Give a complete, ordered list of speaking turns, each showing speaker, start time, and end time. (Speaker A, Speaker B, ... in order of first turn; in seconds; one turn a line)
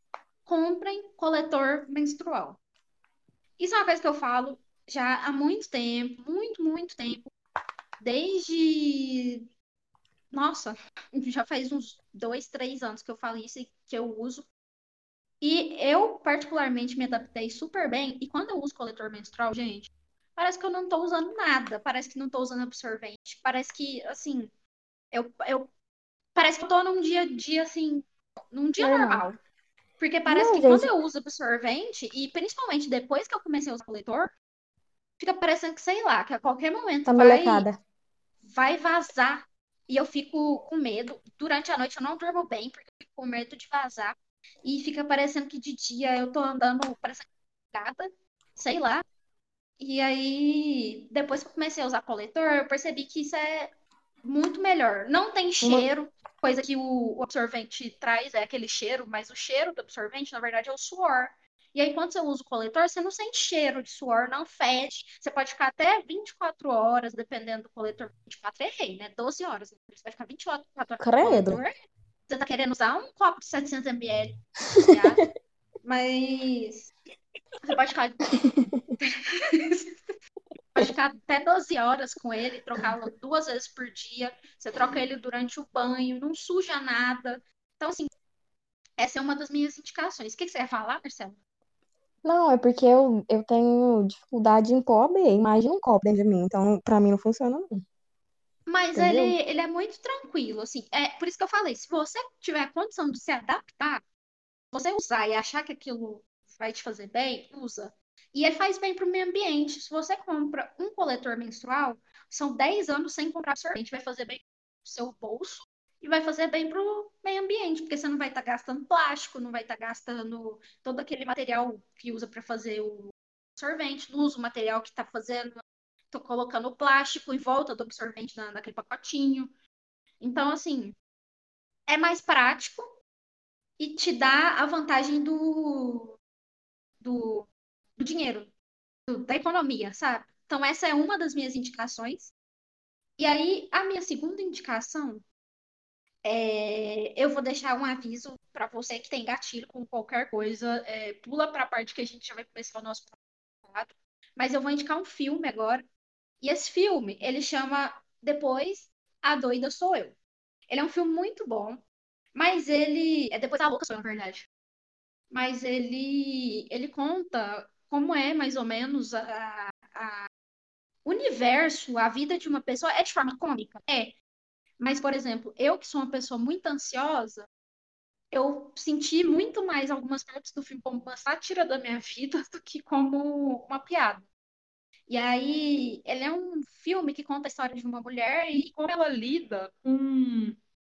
Speaker A: 0.5-2.6
Speaker A: 3.6-7.3
Speaker A: 8.0-9.4
Speaker A: 10.3-14.5
Speaker A: 15.4-24.5
Speaker A: 25.1-25.7
Speaker A: 26.4-29.4
Speaker B: 28.8-29.3
Speaker A: 30.0-34.3
Speaker B: 30.3-30.9
Speaker A: 35.2-37.7
Speaker B: 37.1-37.8
Speaker A: 38.4-49.0
Speaker A: 49.8-53.7
Speaker A: 54.2-71.7
Speaker B: 55.6-55.9
Speaker B: 71.0-71.6
Speaker A: 72.3-75.2
Speaker A: 75.8-76.9
Speaker A: 77.6-78.3
Speaker B: 78.4-78.8
Speaker A: 79.0-80.0
Speaker A: 80.8-88.1
Speaker A: 89.0-91.4
Speaker B: 92.2-97.8
Speaker A: 98.7-104.0
Speaker B: 99.0-99.4
Speaker A: 104.7-129.5
Speaker A: 130.2-131.0
Speaker A: 131.9-132.8
Speaker A: 133.8-136.2
Speaker A: 137.0-138.5
Speaker A: 139.1-142.3
Speaker A: 143.2-145.2
Speaker A: 146.2-155.9
Speaker A: 156.4-160.2
Speaker A: 160.7-161.8
Speaker A: 162.3-164.5
Speaker A: 165.3-170.3
Speaker A: 171.1-174.2
Speaker A: 174.8-177.5
Speaker A: 178.3-184.3
Speaker A: 185.1-190.6